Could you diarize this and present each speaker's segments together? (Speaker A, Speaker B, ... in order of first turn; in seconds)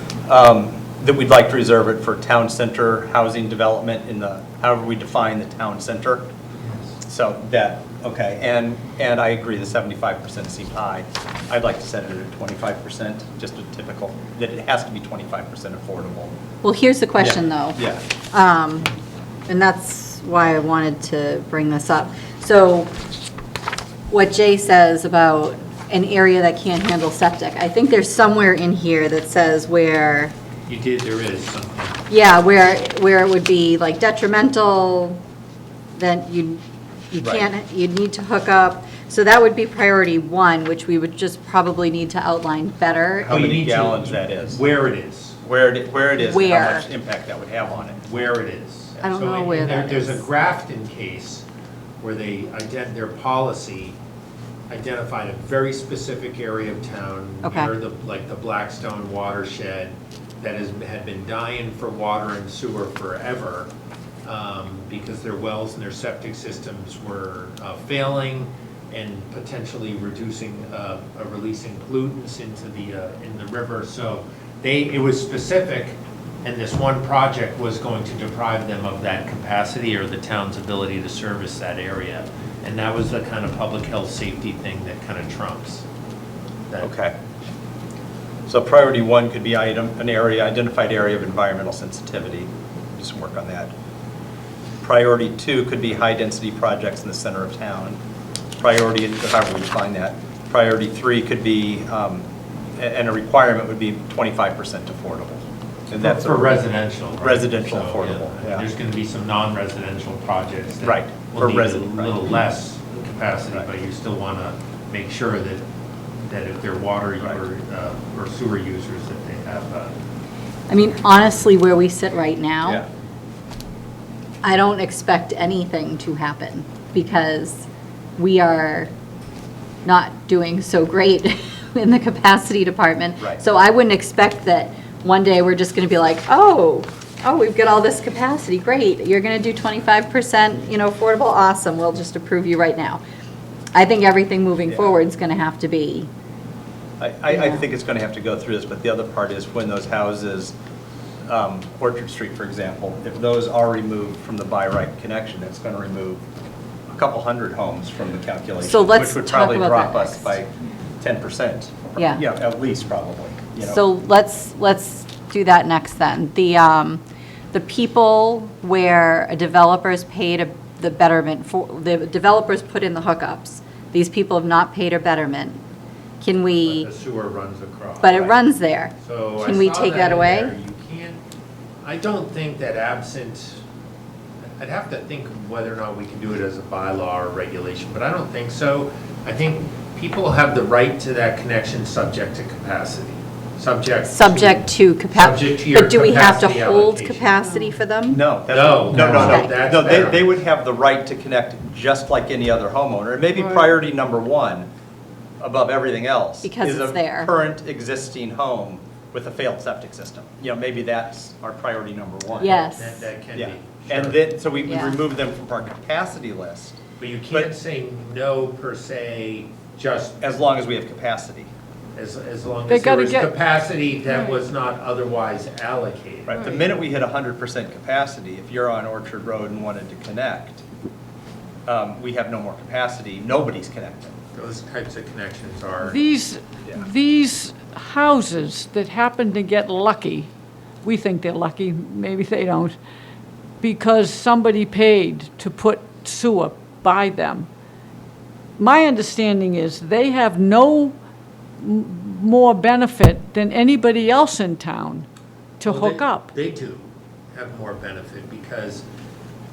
Speaker A: 0.2-6.3, 7.0-16.3, 17.2-18.0, 37.2-37.5, 43.3-44.6, 45.4-48.0, 86.8-87.1, 88.5-93.7, 94.8-98.0, 98.6-102.2, 102.8-106.5, 107.2-108.7, 110.8-112.1, 147.0-150.6, 151.3-156.2, 156.9-163.8, 198.1-204.7, 205.4-212.6, 213.3-216.8, 220.2-221.5, 226.3-230.6, 231.7-234.1
Speaker B: 16.6-18.9, 19.5-22.9, 24.1-30.3, 32.1-35.2, 36.0-43.4, 46.2-46.8, 49.0-50.2, 57.4-57.7, 120.7-122.8, 124.4-127.7, 128.2-128.9, 129.8-143.0, 143.7-146.1, 147.3-147.6, 158.6-160.4, 162.0-162.2, 163.6-167.0, 167.5-175.6, 176.2-176.9, 178.0-180.5, 194.1-198.2, 199.1-199.5, 206.4-207.3, 212.4-213.1, 214.7-214.9
Speaker C: 30.7-32.0, 43.2-45.4, 48.0-51.4, 52.0-54.0, 54.7-63.7, 64.2-85.8, 106.0-115.6, 116.2-120.0, 176.6-178.2, 179.0-181.2, 181.8-183.6, 184.6-197.6, 198.5-200.3, 212.4-214.2, 217.0-220.2, 221.9-226.5, 234.3-236.0, 255.6-258.8
Speaker D: 222.7-223.3, 235.8-240.3, 240.8-242.8, 243.6-247.5, 248.6-251.0, 251.6-255.1, 255.6-256.3